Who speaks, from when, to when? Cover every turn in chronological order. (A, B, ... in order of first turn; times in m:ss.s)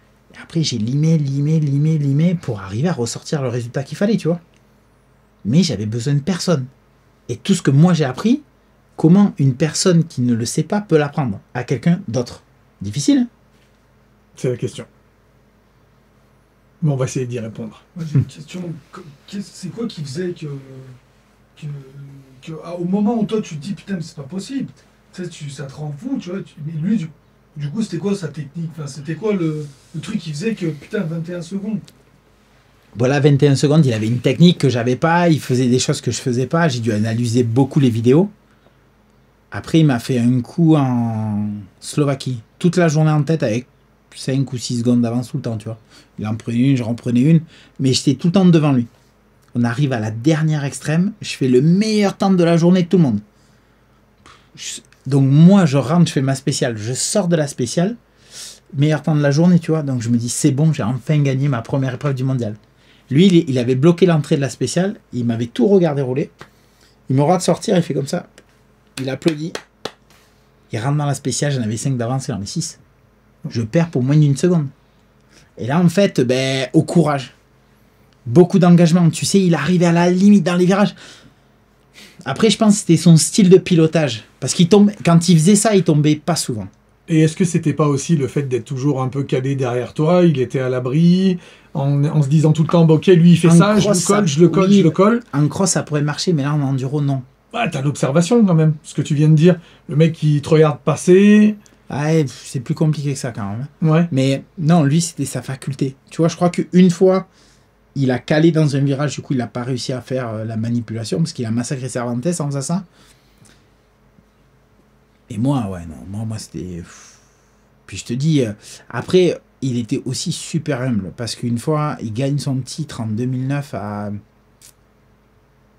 0:00.3-0:04.4 A
0:05.4-0:06.7 A
0:07.3-0:08.4 A
0:09.0-0:13.3 A
0:14.4-0:14.9 B
0:16.8-0:17.8 B
0:17.9-0:21.0 C
0:21.6-0:31.8 C
0:32.9-0:38.3 A
0:39.5-0:48.9 A
0:49.5-0:53.2 A
0:54.5-0:58.0 A
0:58.7-1:02.6 A
1:03.1-1:06.3 A
1:07.1-1:08.3 A
1:09.0-1:09.6 A
1:10.7-1:12.8 A
1:13.5-1:14.7 A
1:15.6-1:17.3 A
1:18.2-1:20.9 A
1:22.2-1:26.7 A
1:27.1-1:35.2 B
1:33.4-1:37.2 A
1:37.5-1:41.6 B
1:41.9-1:47.3 A
1:43.8-1:44.1 B
1:47.9-1:52.9 A
1:55.3-1:57.2 A
1:57.9-2:04.2 A